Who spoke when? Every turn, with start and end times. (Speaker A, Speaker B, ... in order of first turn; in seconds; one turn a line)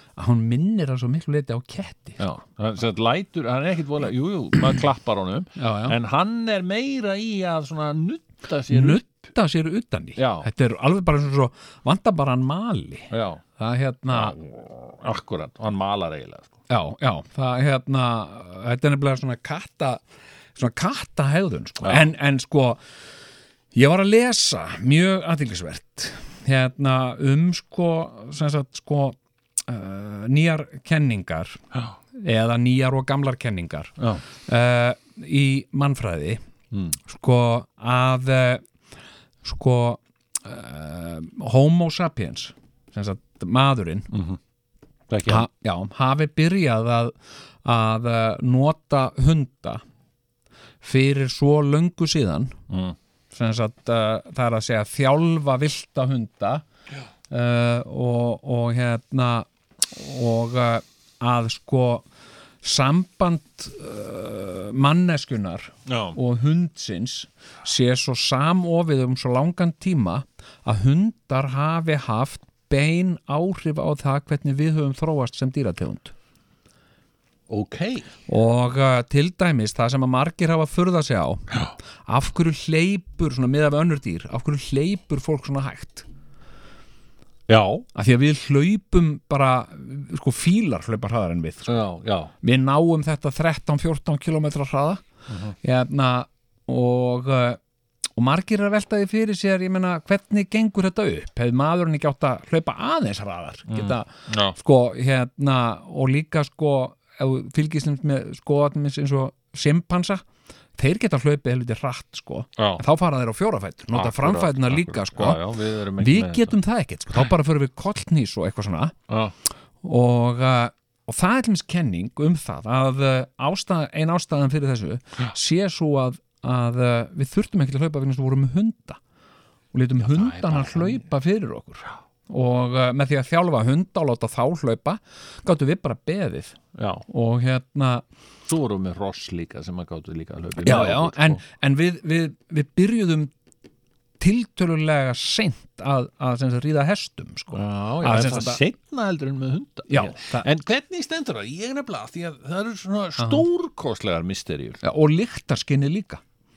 Speaker A: 0.2-2.2
Speaker B: 2.2-9.0
Speaker A: 5.6-6.0
Speaker A: 8.7-14.4
Speaker B: 10.2-10.5
Speaker B: 13.1-13.4
Speaker B: 14.1-16.5
Speaker A: 16.7-20.0
Speaker A: 20.5-22.8
Speaker B: 21.8-22.1
Speaker A: 23.7-31.6
Speaker A: 32.1-33.9
Speaker B: 34.0-34.2
Speaker A: 34.5-36.4
Speaker B: 36.7-37.0
Speaker A: 37.0-38.6
Speaker A: 39.4-44.1
Speaker B: 44.1-44.4
Speaker B: 45.1-45.5
Speaker A: 45.2-49.8
Speaker A: 50.8-52.5
Speaker B: 52.7-53.0
Speaker A: 53.3-56.6
Speaker A: 57.3-62.0
Speaker A: 62.6-76.1
Speaker B: 65.8-66.2
Speaker B: 77.5-78.1
Speaker A: 78.3-81.4
Speaker A: 82.0-86.0
Speaker B: 87.5-87.8
Speaker A: 87.9-91.8
Speaker B: 91.7-92.3
Speaker A: 92.4-95.0
Speaker B: 95.3-95.5
Speaker A: 95.6-97.6
Speaker A: 98.2-110.2
Speaker B: 103.7-104.6
Speaker A: 110.8-115.4
Speaker B: 112.6-112.8
Speaker B: 113.9-116.5
Speaker A: 116.0-118.9
Speaker B: 119.1-119.3
Speaker A: 119.8-129.0
Speaker A: 129.7-138.0
Speaker B: 130.0-131.0
Speaker B: 136.7-137.0
Speaker B: 138.4-141.4
Speaker A: 140.6-143.3
Speaker A: 144.2-148.6
Speaker B: 147.5-154.8
Speaker A: 149.9-150.5
Speaker A: 153.2-153.4
Speaker A: 154.8-156.2